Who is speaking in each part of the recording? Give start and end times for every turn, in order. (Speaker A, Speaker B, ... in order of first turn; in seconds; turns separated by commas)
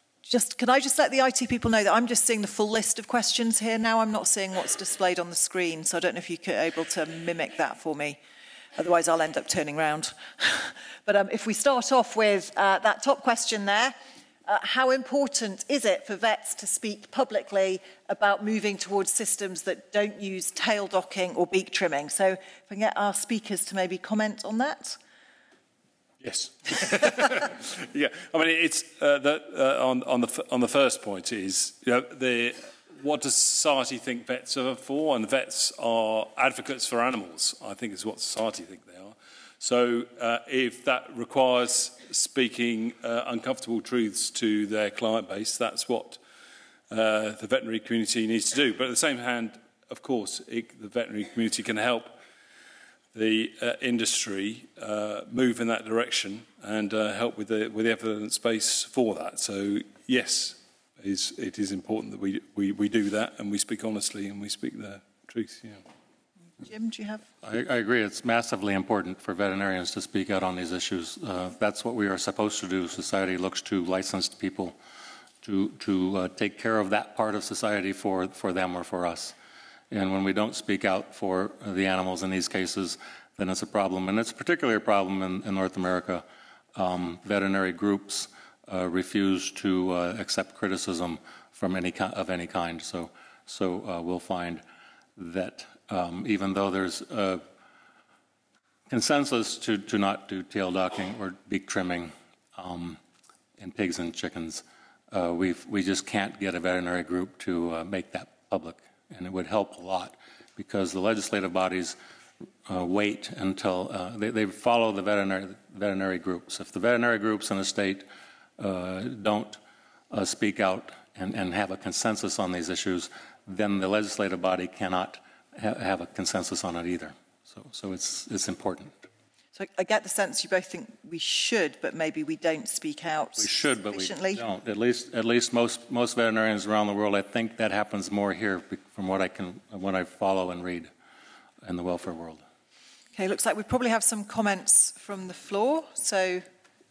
Speaker A: 0.2-8.2, Speaker A: 8.8-25.0, Speaker B: 26.2-46.2, Speaker B: 46.9-52.2, Speaker B: 53.1-65.8, Speaker A: 66.6-67.2, Speaker C: 67.4-74.8, Speaker C: 75.4-79.3, Speaker C: 79.9-94.6, Speaker C: 95.2-97.4, Speaker C: 98.9-103.0, Speaker C: 103.6-112.0, Speaker C: 112.7-118.1, Speaker C: 118.6-119.6, Speaker C: 120.1-129.1, Speaker A: 129.6-134.4, Speaker C: 133.4-140.9, Speaker C: 141.6-142.4, Speaker A: 143.2-146.5